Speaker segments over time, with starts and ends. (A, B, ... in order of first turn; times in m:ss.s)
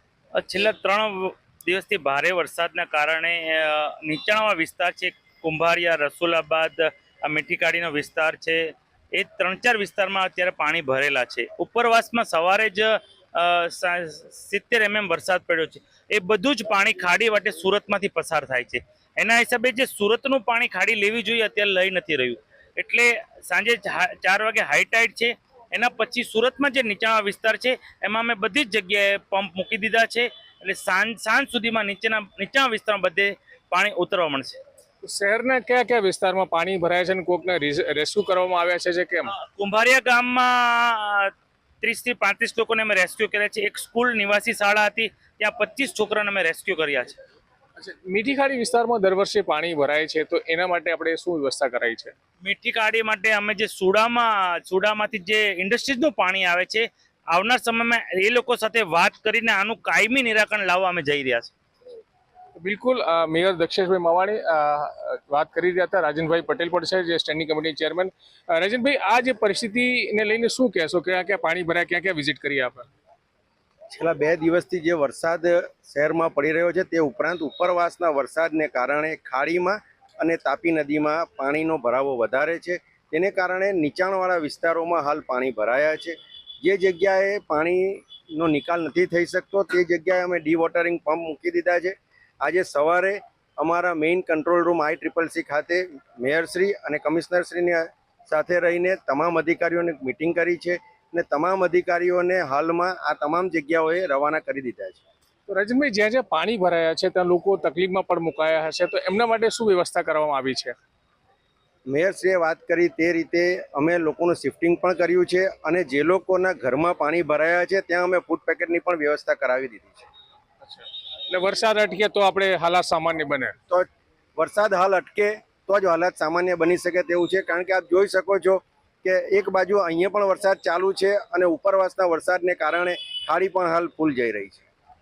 0:00.4-0:34.6 A
0:35.0-0:39.3 B
0:39.4-0:47.2 A
0:47.8-0:52.1 B
0:52.4-1:01.5 A
1:02.6-1:12.9 B
1:13.9-1:45.0 C
1:45.5-1:50.8 B
1:51.9-2:00.1 C
2:00.6-2:03.6 B
2:03.7-2:14.6 C